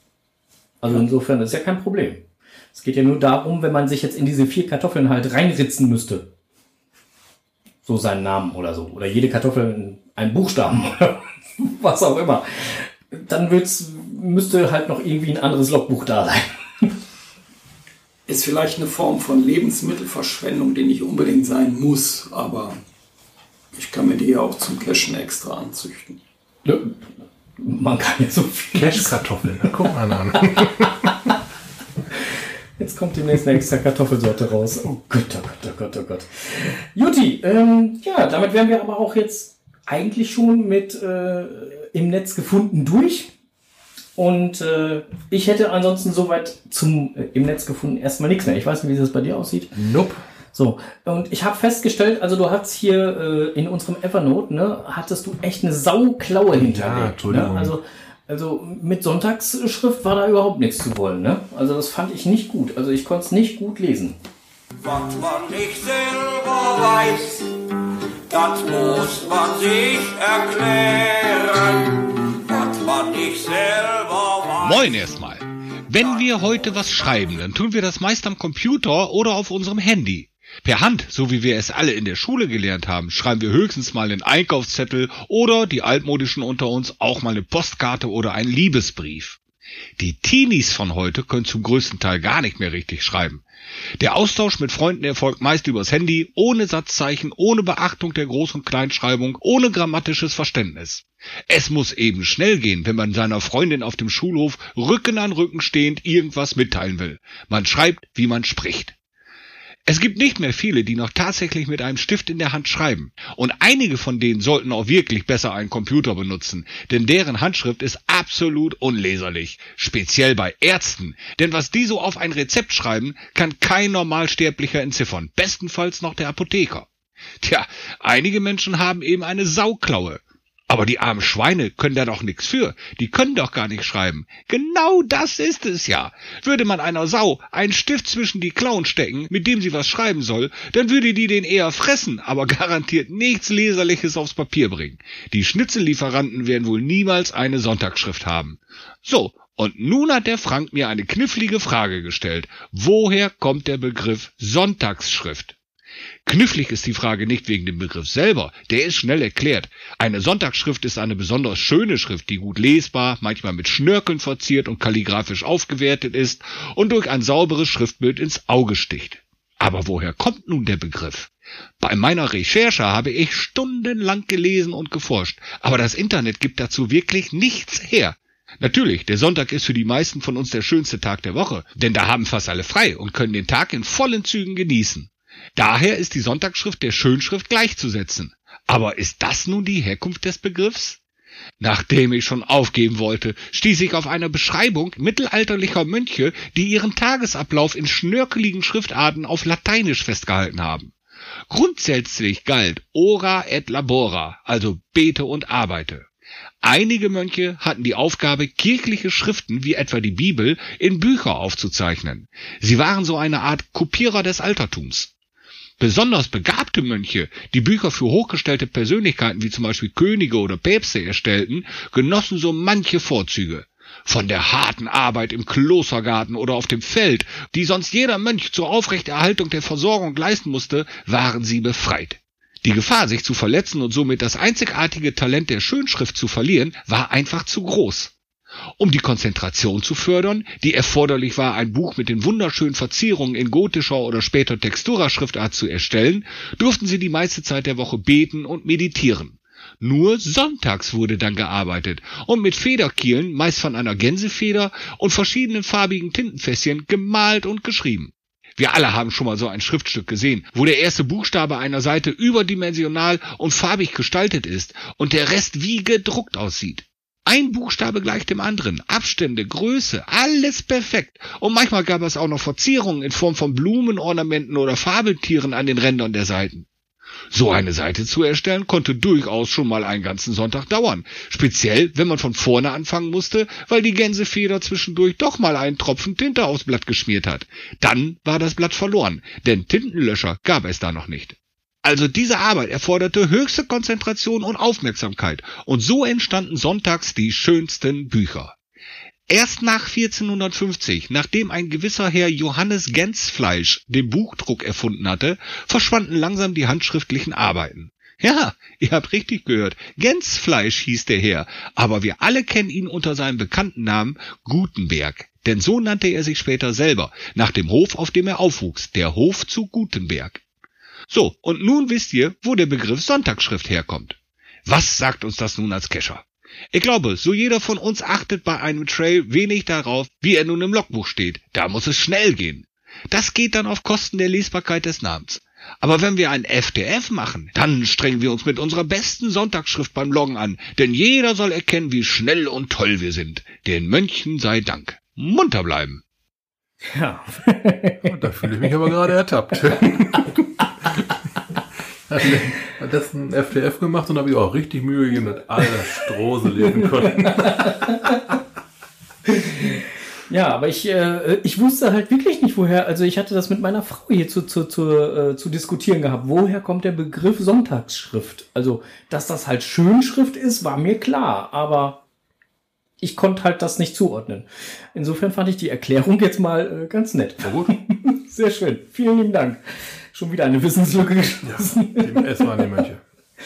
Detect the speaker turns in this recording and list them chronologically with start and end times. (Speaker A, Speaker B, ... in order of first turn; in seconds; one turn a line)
Speaker A: 0.8-6.3
Speaker A: 7.8-16.9
Speaker B: 18.3-22.8
Speaker B: 23.7-26.2
Speaker A: 26.6-27.0
Speaker A: 27.6-29.2
Speaker C: 28.7-31.1
Speaker A: 32.8-43.3
Speaker A: 44.2-49.8
Speaker C: 49.8-50.2
Speaker A: 50.5-64.2
Speaker C: 56.5-57.8
Speaker D: 64.8-67.7
Speaker D: 68.3-74.9
Speaker E: 74.6-89.4
Speaker E: 90.0-93.5
Speaker E: 94.0-108.9
Speaker E: 109.9-126.9
Speaker E: 127.4-155.6
Speaker E: 156.2-191.0
Speaker E: 191.6-200.9
Speaker E: 201.5-206.1
Speaker E: 206.6-215.1
Speaker E: 215.8-238.1
Speaker E: 238.8-276.7
Speaker E: 277.3-298.6
Speaker E: 299.3-320.4
Speaker E: 321.1-346.0
Speaker A: 346.9-348.1
Speaker C: 348.0-350.4
Speaker C: 352.1-358.1
Speaker A: 356.8-358.3
Speaker A: 359.3-372.0
Speaker A: 373.0-379.6
Speaker C: 377.4-377.7
Speaker A: 380.1-382.7
Speaker C: 381.4-383.0